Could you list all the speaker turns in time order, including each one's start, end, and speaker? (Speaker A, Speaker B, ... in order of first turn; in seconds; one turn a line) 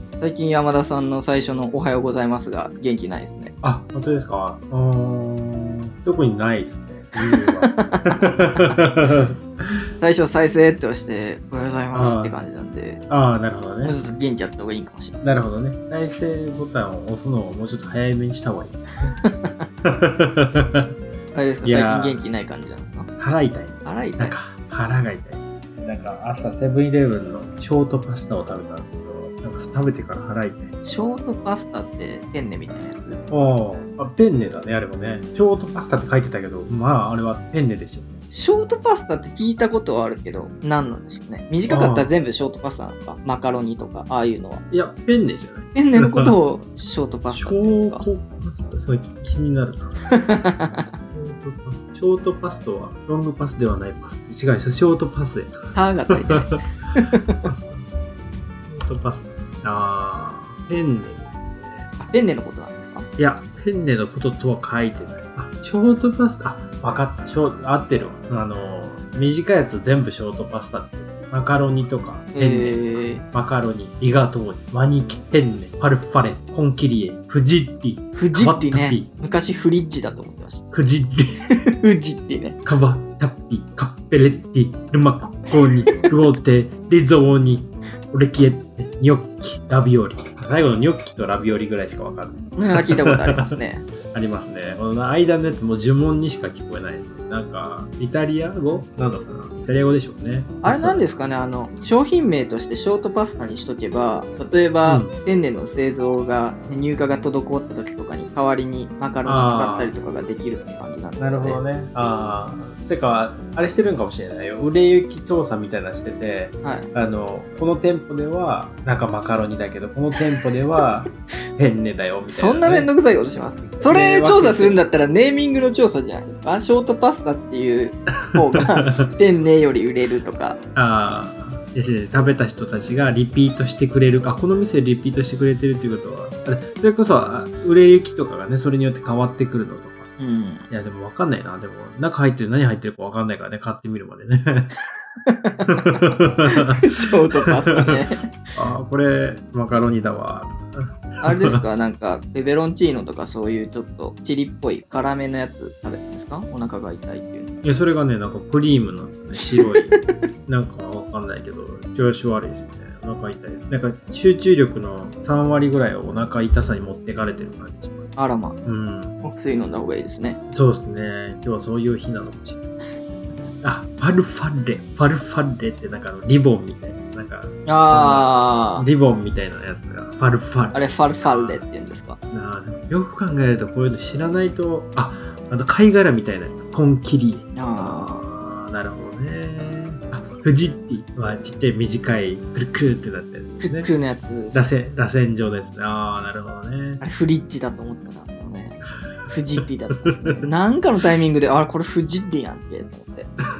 Speaker A: 0.2-3.5
Speaker B: 3.6-9.7
Speaker A: 7.2-8.8
Speaker A: 10.0-13.0
Speaker B: 11.9-12.3
Speaker B: 13.1-14.0
Speaker A: 13.8-15.2
Speaker B: 15.2-19.2
Speaker A: 19.2-19.6
Speaker B: 19.8-20.9
Speaker A: 21.3-23.1
Speaker B: 21.6-22.2
Speaker B: 23.2-30.7
Speaker A: 23.8-24.4
Speaker A: 30.8-33.2
Speaker B: 33.3-38.2
Speaker A: 38.3-44.6
Speaker B: 41.7-42.1
Speaker B: 44.7-46.4
Speaker A: 45.7-48.0
Speaker B: 47.3-50.1
Speaker A: 50.1-50.9
Speaker B: 51.1-56.6
Speaker A: 55.7-57.4
Speaker B: 57.4-57.9
Speaker B: 58.6-61.9
Speaker A: 62.0-63.1
Speaker B: 63.2-79.1
Speaker A: 72.3-73.2
Speaker A: 78.2-80.6
Speaker B: 80.7-81.4
Speaker A: 81.5-82.6
Speaker B: 82.6-93.6
Speaker A: 92.6-93.8
Speaker B: 94.1-101.0
Speaker A: 100.6-111.6
Speaker B: 104.8-105.1
Speaker B: 109.2-109.9
Speaker B: 111.2-122.9
Speaker A: 116.6-116.9
Speaker A: 122.3-130.6
Speaker B: 123.8-124.8
Speaker B: 128.2-129.2
Speaker B: 130.7-140.1
Speaker A: 140.2-140.7
Speaker B: 140.7-144.7
Speaker A: 145.2-148.3
Speaker B: 145.7-146.8
Speaker B: 147.4-148.0
Speaker B: 148.5-151.6
Speaker A: 151.2-157.5
Speaker B: 157.6-168.1
Speaker A: 159.6-160.2
Speaker A: 168.2-168.6
Speaker B: 168.6-169.2
Speaker A: 169.2-170.4
Speaker B: 170.5-172.6
Speaker B: 173.6-181.6
Speaker A: 177.7-178.8
Speaker A: 180.7-182.2
Speaker B: 182.3-193.9
Speaker A: 187.6-188.2
Speaker A: 193.6-194.6
Speaker B: 194.5-197.0
Speaker A: 197.0-203.3
Speaker B: 199.9-200.5